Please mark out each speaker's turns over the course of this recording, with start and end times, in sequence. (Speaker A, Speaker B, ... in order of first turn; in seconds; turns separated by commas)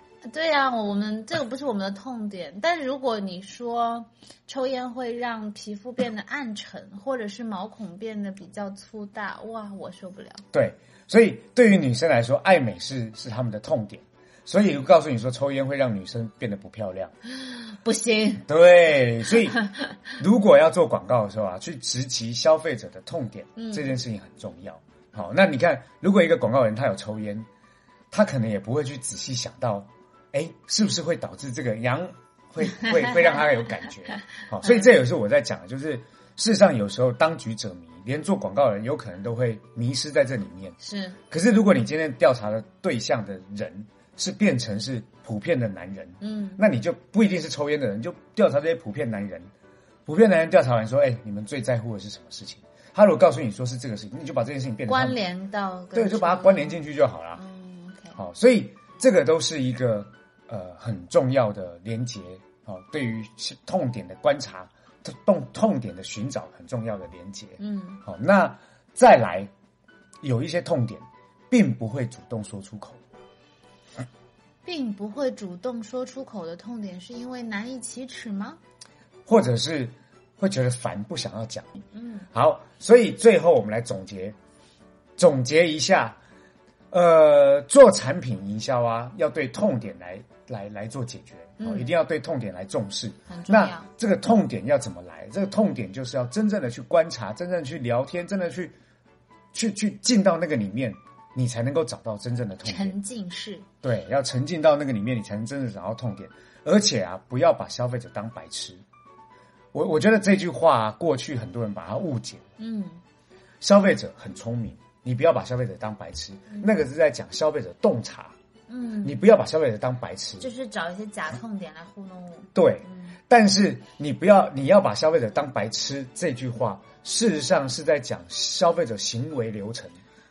Speaker A: 0.2-10.4, Speaker B: 10.5-17.1, Speaker A: 17.5-18.5, Speaker B: 18.5-19.6, Speaker B: 20.2-27.5, Speaker A: 23.6-24.0, Speaker B: 28.1-40.8, Speaker A: 32.7-33.4, Speaker A: 34.6-34.9, Speaker A: 40.8-41.2, Speaker B: 41.3-49.5, Speaker A: 46.2-46.6, Speaker B: 50.1-55.2, Speaker A: 54.9-56.8, Speaker B: 55.9-57.4, Speaker A: 57.4-58.2, Speaker B: 58.2-69.5, Speaker A: 67.6-68.0, Speaker B: 70.2-73.0, Speaker A: 74.7-78.6, Speaker B: 79.3-84.4, Speaker A: 81.9-82.3, Speaker B: 85.2-86.2, Speaker B: 86.9-98.8, Speaker A: 91.6-91.9, Speaker A: 93.3-93.9, Speaker B: 99.5-103.0, Speaker A: 102.7-103.7, Speaker B: 103.8-108.8, Speaker B: 109.7-112.5, Speaker A: 112.6-113.0, Speaker B: 113.6-118.3, Speaker A: 118.7-119.2, Speaker B: 119.0-120.5, Speaker A: 120.4-123.2, Speaker B: 122.5-130.0